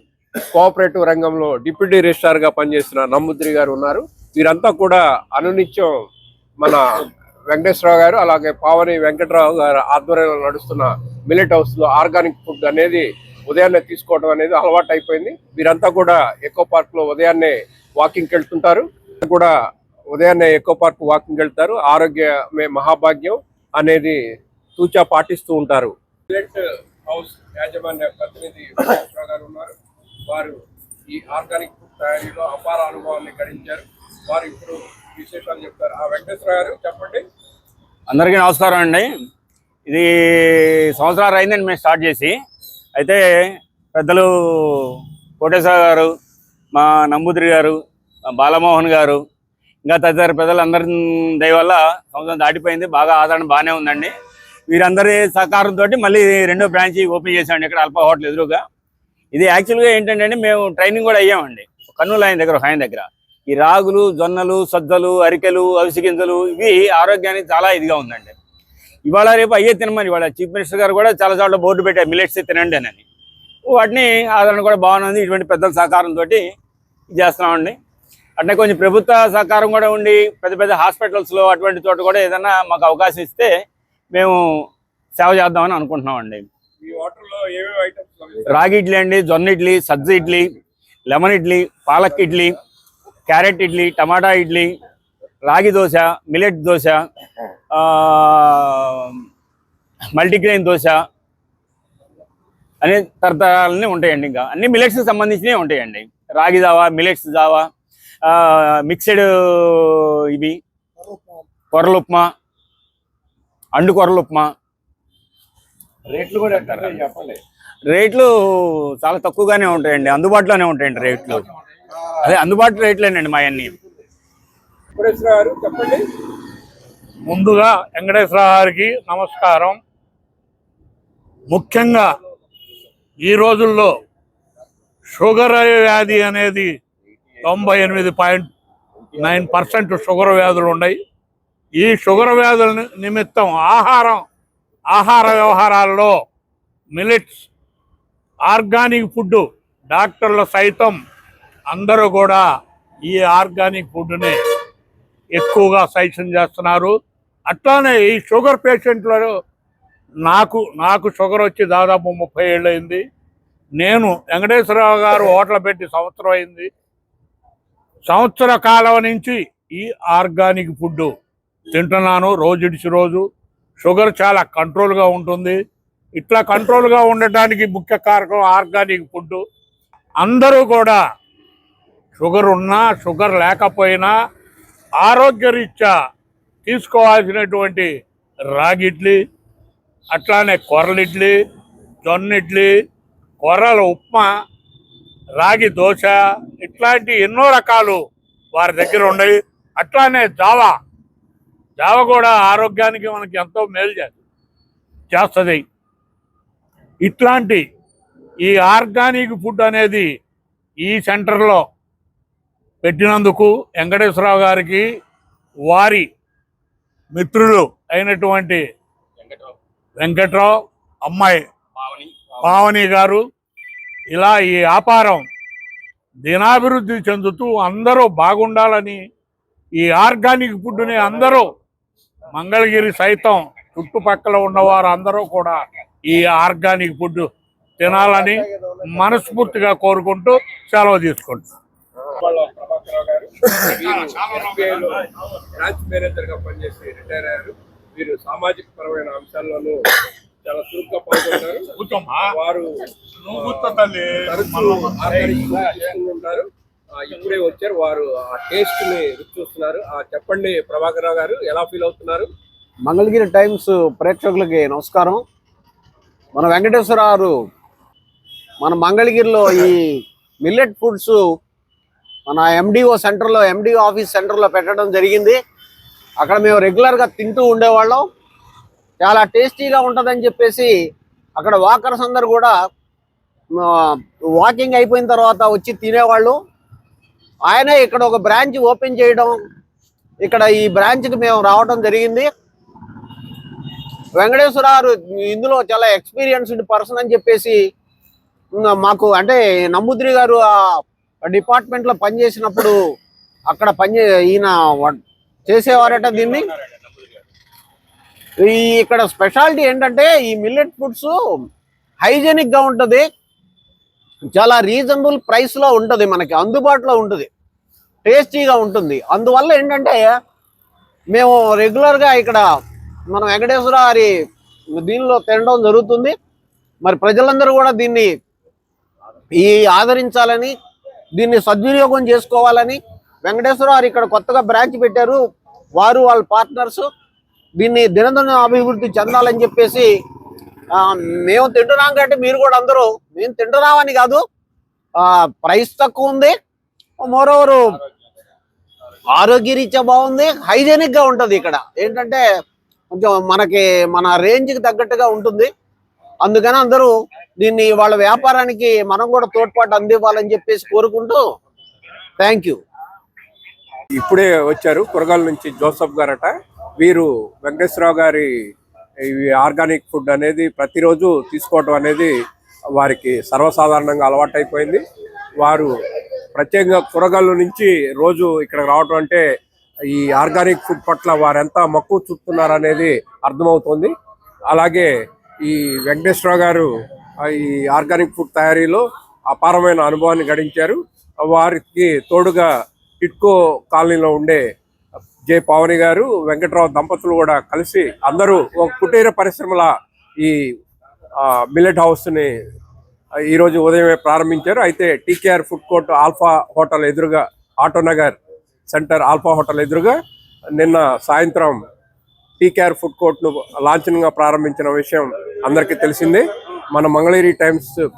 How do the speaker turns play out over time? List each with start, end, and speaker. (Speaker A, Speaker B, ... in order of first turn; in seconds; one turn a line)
Speaker A: 0.5-6.0
Speaker A: 6.6-19.5
Speaker A: 20.1-24.2
Speaker A: 24.8-29.7
Speaker A: 30.3-30.6
Speaker A: 31.1-37.2
Speaker B: 38.1-39.1
Speaker B: 39.9-42.4
Speaker B: 42.9-46.1
Speaker B: 46.7-47.8
Speaker B: 48.3-49.2
Speaker B: 49.8-54.1
Speaker B: 54.7-58.6
Speaker B: 59.3-68.3
Speaker B: 69.0-73.0
Speaker B: 73.7-76.5
Speaker B: 77.1-77.8
Speaker B: 78.4-83.5
Speaker B: 84.1-84.4
Speaker B: 85.1-86.5
Speaker A: 86.8-88.7
Speaker B: 88.5-90.5
Speaker B: 91.1-92.6
Speaker B: 93.3-94.8
Speaker B: 95.4-97.1
Speaker B: 97.7-99.2
Speaker B: 100.1-101.0
Speaker B: 102.8-107.7
Speaker B: 108.2-110.6
Speaker B: 111.7-112.3
Speaker B: 113.7-114.5
Speaker B: 116.1-117.3
Speaker B: 117.9-121.5
Speaker B: 122.2-123.8
Speaker A: 125.0-126.0
Speaker C: 127.2-129.8
Speaker C: 131.5-132.1
Speaker C: 133.2-133.9
Speaker C: 135.1-136.8
Speaker C: 137.4-138.5
Speaker C: 139.2-141.0
Speaker C: 141.8-144.2
Speaker C: 144.9-146.2
Speaker C: 146.9-147.5
Speaker C: 148.5-151.0
Speaker C: 151.7-152.4
Speaker C: 153.1-154.4
Speaker C: 155.3-156.9
Speaker C: 157.5-159.4
Speaker C: 160.2-163.0
Speaker C: 163.8-166.7
Speaker C: 168.1-171.1
Speaker C: 171.7-173.2
Speaker C: 173.8-175.6
Speaker C: 176.2-179.4
Speaker C: 180.2-181.0
Speaker C: 182.2-184.1
Speaker C: 185.0-185.9
Speaker C: 186.6-187.9
Speaker C: 188.5-189.2
Speaker C: 190.1-191.4
Speaker C: 192.0-192.7
Speaker C: 193.4-194.3
Speaker C: 195.4-200.8
Speaker C: 201.8-204.2
Speaker C: 205.1-205.6
Speaker C: 207.0-207.6
Speaker C: 208.4-210.1
Speaker C: 210.8-211.6
Speaker C: 212.8-214.8
Speaker C: 215.7-216.1
Speaker C: 217.1-218.6
Speaker B: 219.2-219.5
Speaker C: 220.0-221.4
Speaker B: 221.8-222.6
Speaker C: 222.4-223.2
Speaker C: 224.1-225.2
Speaker C: 226.2-229.0
Speaker C: 229.8-231.5
Speaker C: 232.3-237.3
Speaker C: 237.8-241.5
Speaker A: 242.0-249.8
Speaker C: 244.0-244.4
Speaker A: 250.4-251.7
Speaker C: 251.8-252.3
Speaker A: 252.3-262.3
Speaker C: 253.2-255.4
Speaker D: 262.9-265.2
Speaker D: 266.3-267.3
Speaker D: 268.6-271.2
Speaker D: 272.3-275.4
Speaker D: 276.2-278.1
Speaker D: 279.0-280.7
Speaker D: 281.4-282.5
Speaker D: 283.6-286.4
Speaker D: 287.4-289.4
Speaker D: 290.2-292.3
Speaker D: 294.1-297.6
Speaker D: 298.5-302.8
Speaker D: 303.5-306.5
Speaker B: 306.0-306.9
Speaker D: 308.4-311.2
Speaker D: 312.0-313.1
Speaker D: 314.3-317.3
Speaker D: 318.0-320.1
Speaker D: 321.1-322.4
Speaker D: 323.1-324.1
Speaker D: 324.8-326.1
Speaker D: 326.8-328.1
Speaker D: 329.3-330.5
Speaker D: 331.1-335.2
Speaker D: 335.8-336.9
Speaker D: 337.6-339.9
Speaker D: 340.7-344.2
Speaker D: 345.0-346.3
Speaker D: 347.0-347.6
Speaker D: 349.1-352.2
Speaker D: 352.9-355.5
Speaker D: 356.2-361.2
Speaker D: 362.2-362.6
Speaker A: 363.9-368.3
Speaker A: 369.0-372.1
Speaker A: 372.8-374.8
Speaker A: 375.4-375.7
Speaker A: 376.3-379.2
Speaker A: 379.9-383.9
Speaker A: 384.5-384.9
Speaker A: 385.4-386.7
Speaker A: 387.2-392.5
Speaker A: 393.0-394.4
Speaker A: 395.3-399.7
Speaker A: 401.2-402.3
Speaker A: 403.3-408.2
Speaker A: 408.7-410.0
Speaker A: 410.6-411.6
Speaker A: 412.4-417.8